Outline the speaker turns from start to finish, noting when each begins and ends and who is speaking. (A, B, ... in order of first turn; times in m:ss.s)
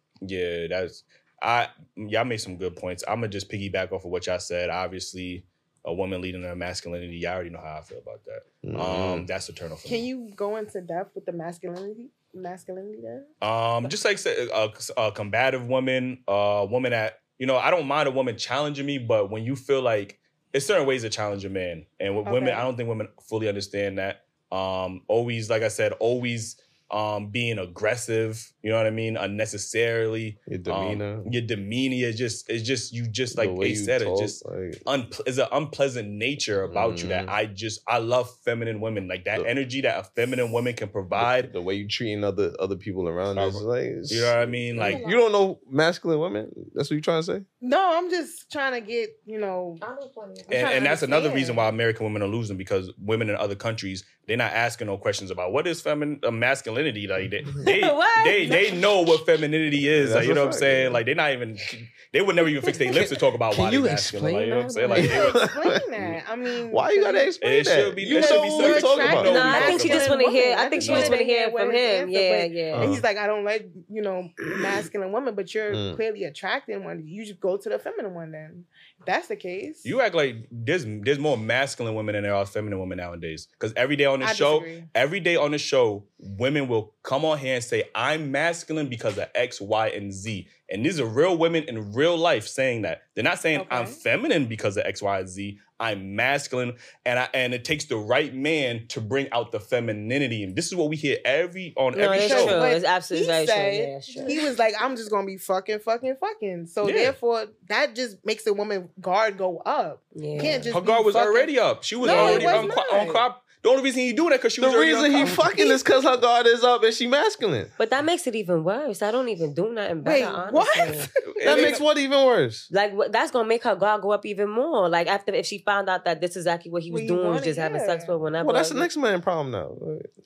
0:00.2-0:10.1 A
0:08.6-0:09.3 B
0:09.9-0:13.3 C
0:13.4-0:41.5 A
0:22.2-0:22.7 C
0:30.5-0:31.3 B
0:33.3-0:34.8 B
0:36.7-0:37.4 B
0:41.1-0:47.4 B
0:43.4-0:45.0 A
0:44.7-0:45.2 D
0:47.6-0:49.8 C
0:49.8-0:51.4 D
0:50.5-1:05.4 A
0:50.5-0:51.5 C
0:57.6-0:59.0 E
0:59.9-1:01.0 B
1:02.7-1:09.6 B
1:04.8-1:05.2 E
1:05.0-1:07.4 C
1:07.4-1:10.1 A
1:08.1-1:19.9 C
1:09.1-1:12.9 E
1:10.8-1:11.2 A
1:12.7-1:13.0 B
1:14.4-1:14.7 B
1:15.7-1:16.0 B
1:19.8-1:42.6 A
1:24.2-1:24.9 C
1:33.5-1:34.0 C
1:42.0-1:44.4 E
1:42.1-1:53.2 C
1:46.8-1:47.2 A
1:50.1-1:50.8 E
1:50.7-1:55.4 A
1:52.0-1:52.7 E
1:54.6-1:57.7 B
1:55.2-1:55.8 C
1:57.8-2:01.1 E
2:00.0-2:01.7 C
2:01.3-2:01.9 A
2:01.4-2:02.7 B
2:02.7-2:08.9 E
2:06.9-2:08.2 C
2:08.4-2:10.1 B